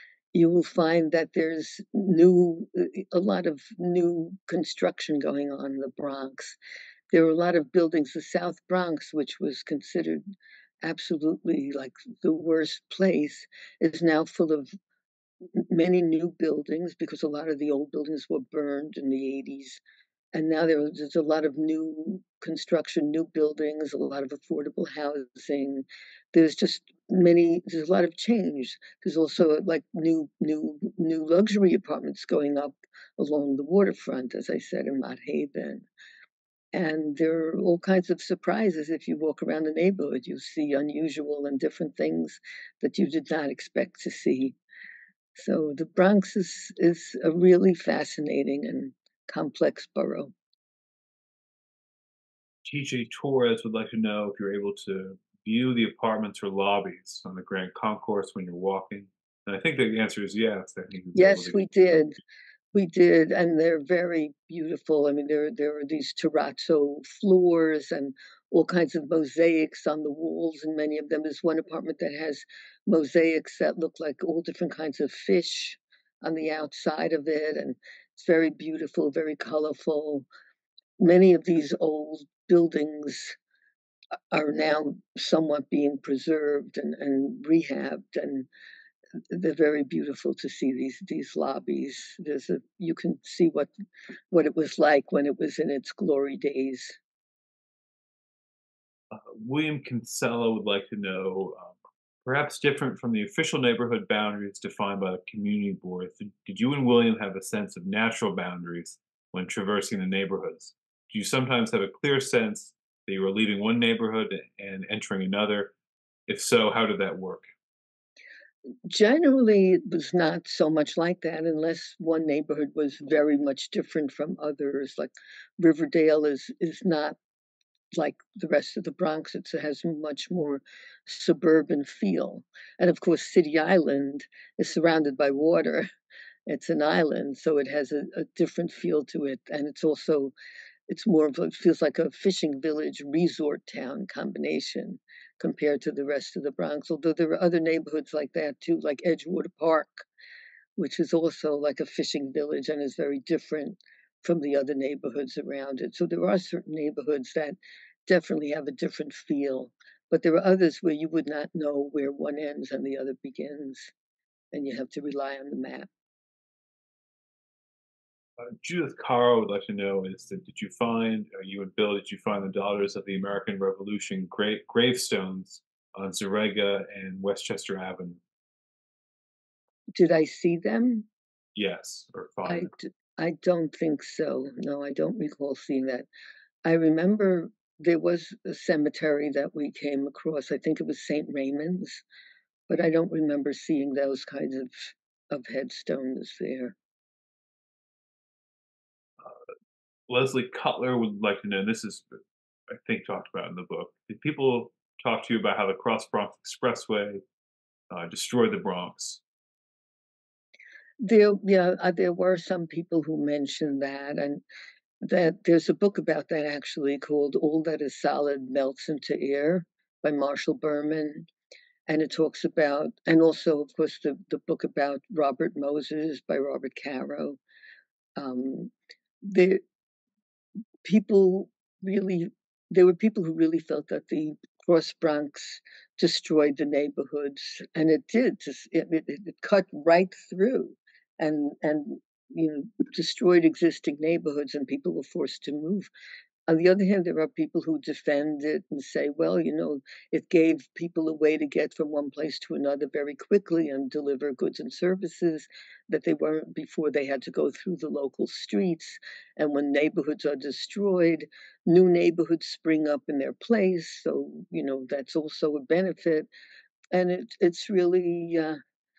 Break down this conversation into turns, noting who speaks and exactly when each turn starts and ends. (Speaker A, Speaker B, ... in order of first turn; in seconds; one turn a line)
Speaker A: 0.3-6.6
Speaker A: 7.1-10.2
Speaker A: 10.8-14.7
Speaker A: 15.5-19.8
Speaker A: 20.3-35.8
Speaker A: 36.7-44.6
Speaker A: 45.4-50.3
Speaker B: 52.6-61.7
Speaker A: 61.1-62.1
Speaker A: 62.7-80.2
Speaker A: 81.0-83.4
Speaker A: 84.3-88.5
Speaker A: 89.3-93.7
Speaker A: 94.3-97.0
Speaker B: 99.1-115.7
Speaker B: 116.3-117.5
Speaker A: 118.9-127.2
Speaker A: 128.0-135.9
Speaker A: 136.5-140.3
Speaker A: 140.9-150.1
Speaker A: 150.8-163.9
Speaker A: 164.5-165.9
Speaker B: 168.4-178.2
Speaker A: 180.0-181.1
Speaker B: 181.6-182.7
Speaker A: 182.4-186.1
Speaker A: 186.6-192.0
Speaker A: 192.7-196.7
Speaker B: 200.1-202.2
Speaker B: 202.7-207.2
Speaker B: 207.9-209.2
Speaker A: 211.0-214.4
Speaker A: 215.0-221.3
Speaker A: 221.9-227.4
Speaker A: 228.2-228.7
Speaker A: 229.2-229.6
Speaker A: 230.8-245.9
Speaker A: 246.5-266.3
Speaker A: 266.9-268.6